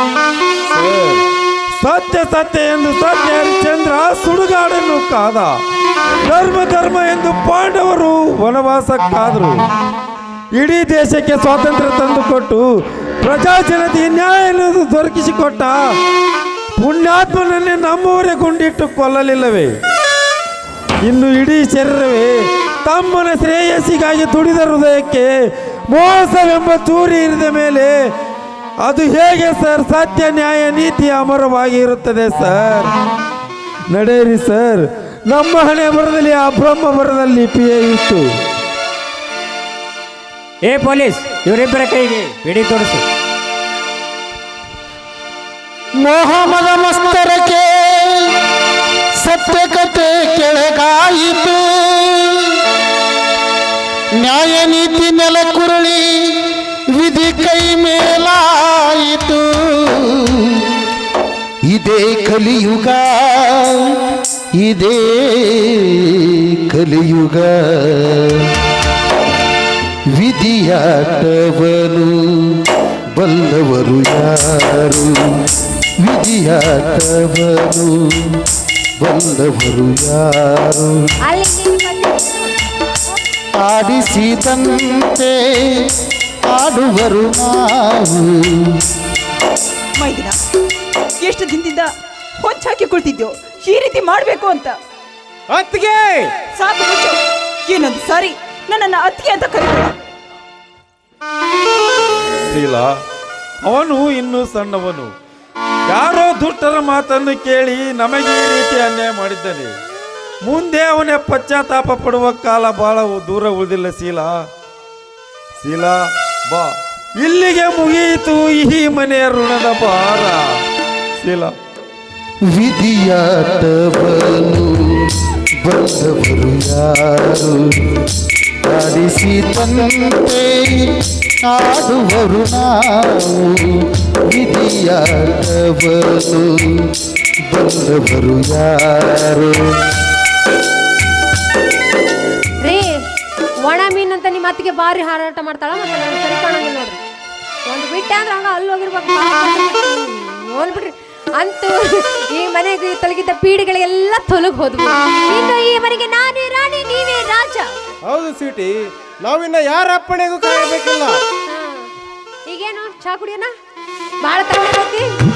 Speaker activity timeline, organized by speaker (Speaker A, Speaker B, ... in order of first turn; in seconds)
Speaker A: 0.7-5.5, 6.2-9.6, 10.5-12.7, 13.2-15.9, 16.8-19.7, 21.0-25.3, 25.9-27.9, 28.8-32.9, 33.9-38.2, 102.5-102.9, 103.6-105.1, 105.9-109.8, 110.4-114.4, 115.6-120.5, 121.2-121.5
Speaker B: 40.6-43.0
Speaker C: 46.0-48.5, 49.1-52.6, 54.1-60.8, 61.6-68.6, 70.1-75.4, 76.0-78.5, 79.0-81.1, 83.5-85.9, 86.5-88.8, 122.5-139.9
Speaker D: 81.2-82.5, 142.6-142.9, 143.6-147.0, 147.7-157.7, 161.5-161.9, 162.5-163.5, 164.2-165.0
Speaker E: 90.0-90.3, 91.2-91.9, 92.4-94.7, 96.5-99.9
Speaker F: 95.5-96.3, 158.1-161.2